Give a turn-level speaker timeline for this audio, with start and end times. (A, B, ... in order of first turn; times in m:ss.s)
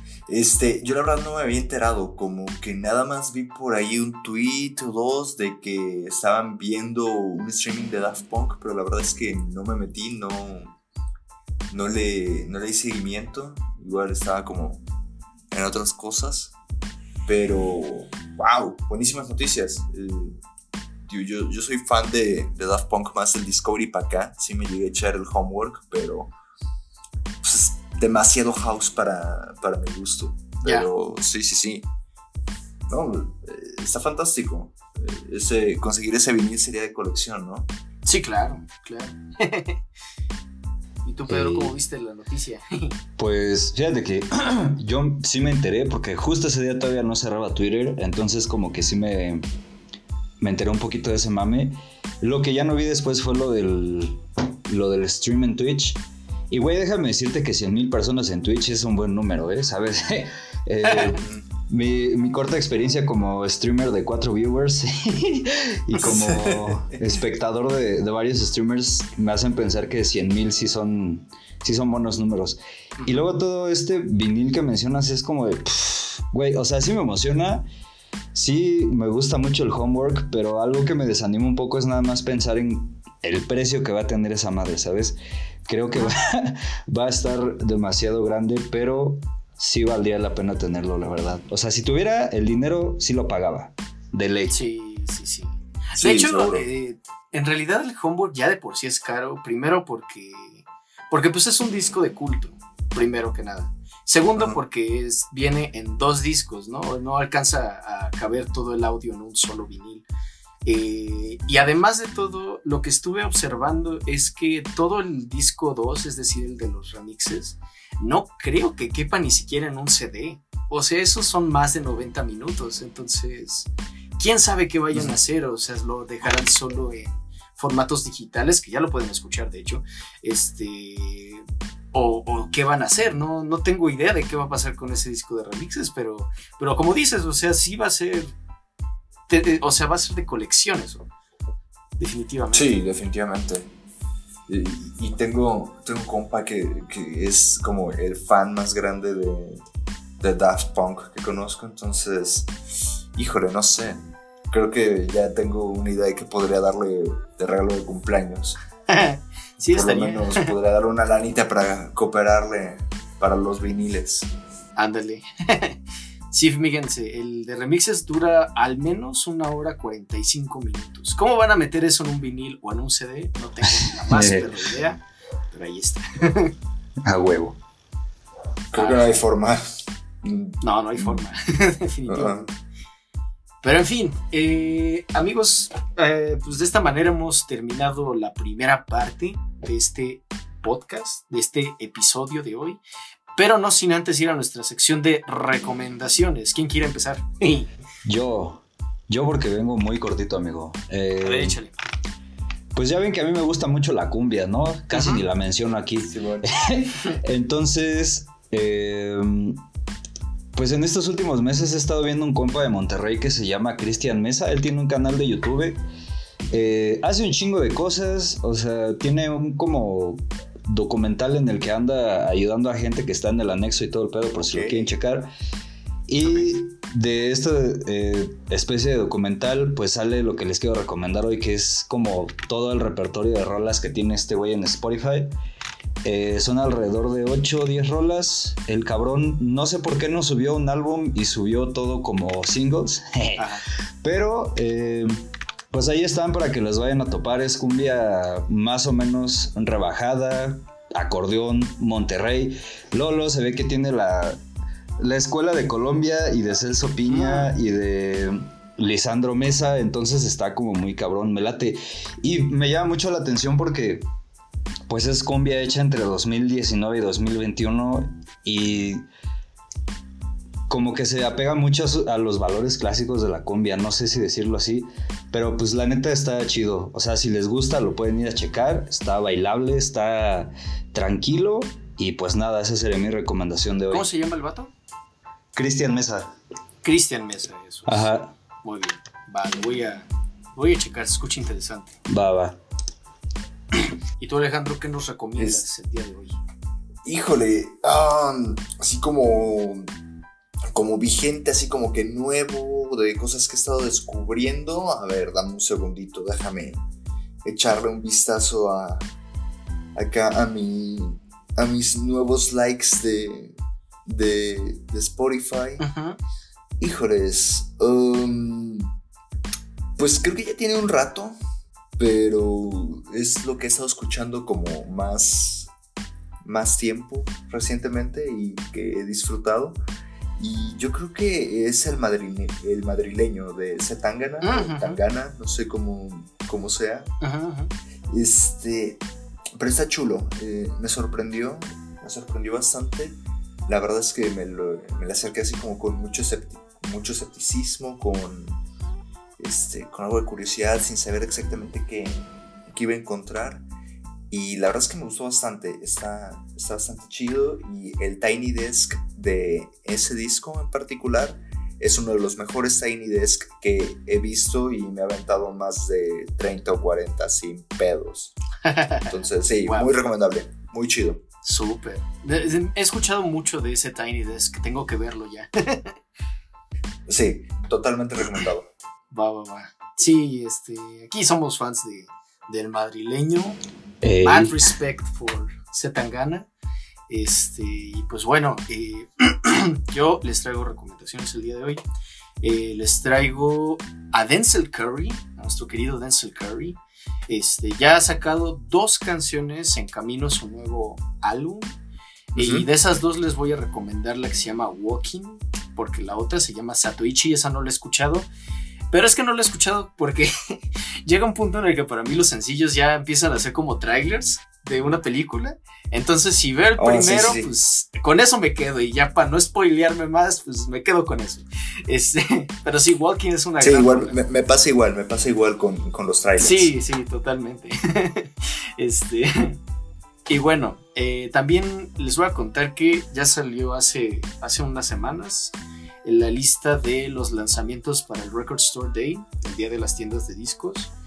0:00.3-0:10.8 A
0:11.7-0:14.8 A
0:15.5-0:16.5 A
0:17.3-0:20.4 A
0:21.1-0:26.3 A
0:27.4-0:31.9 A
0:32.9-0:37.7 A
0:38.0-0:39.8 B
0:41.0-0:43.0 B
0:41.3-0:41.8 C
0:43.2-0:49.4 C
0:50.4-0:56.0 C
0:56.5-1:17.6 C
1:00.9-1:01.2 B
1:06.0-1:07.2 A
1:18.3-1:34.6 C
1:34.5-1:50.0 B
1:36.0-1:36.7 A
1:50.6-2:18.3 B
2:19.3-2:21.1 B
2:22.0-2:22.8 B
2:22.5-2:23.7 A
2:24.5-2:29.6 A
2:30.2-2:32.5 A
2:33.2-2:38.6 A
2:38.9-2:40.5 B
2:39.7-2:44.3 A
2:44.8-2:45.8 B
2:46.3-2:55.0 B
2:53.7-2:54.5 C
2:55.5-2:56.5 B
2:57.0-2:57.6 C
2:58.7-3:01.2 A
2:58.8-2:59.2 B
3:00.6-3:02.5 B
3:02.1-3:02.5 A
3:03.6-3:12.8 B
3:13.4-3:17.7 B
3:18.0-3:21.6 C
3:21.2-3:21.7 B
3:22.8-3:29.6 C
3:24.9-3:25.2 B
3:26.1-3:26.6 A
3:30.6-3:35.8 C
3:36.5-3:45.3 C
3:44.4-3:45.0 A
3:46.1-3:55.3 C
3:56.0-4:03.4 C
4:03.4-4:03.6 B
4:04.0-4:14.4 C
4:15.0-4:24.0 C
4:17.1-4:17.5 B
4:24.9-4:29.0 C
4:30.7-4:44.1 C
4:43.9-4:44.7 B
4:45.6-4:46.3 C
4:46.8-4:48.1 B
4:47.9-4:48.3 C
4:48.6-4:52.0 B
4:52.1-4:52.6 C
4:54.2-4:56.4 B
4:55.4-4:55.6 A
4:57.0-4:59.9 A
5:00.7-5:06.8 A
5:07.4-5:09.1 A
5:10.0-5:15.8 A
5:15.8-5:16.2 B
5:16.8-5:18.9 A
5:20.0-5:21.4 A
5:22.0-5:25.7 A
5:26.4-5:29.8 A
5:30.4-5:37.1 A
5:34.4-5:35.0 B
5:37.2-5:37.7 B
5:38.1-5:39.0 A
5:39.6-5:48.6 A
5:49.4-5:53.6 A
5:54.3-6:08.3 A
6:08.6-6:09.9 B
6:09.1-6:11.2 A
6:11.4-6:16.0 B
6:17.1-6:18.7 A
6:19.1-6:23.6 B
6:24.0-6:24.6 C
6:24.2-6:26.5 B
6:27.1-6:31.8 B
6:32.4-6:36.8 B
6:37.3-6:41.8 B
6:42.3-6:48.3 B
6:42.4-6:42.7 A
6:48.9-7:04.2 B
6:56.8-6:57.5 A
7:03.6-7:06.7 A
7:06.4-7:09.6 B
7:10.3-7:15.5 B
7:16.0-7:20.9 B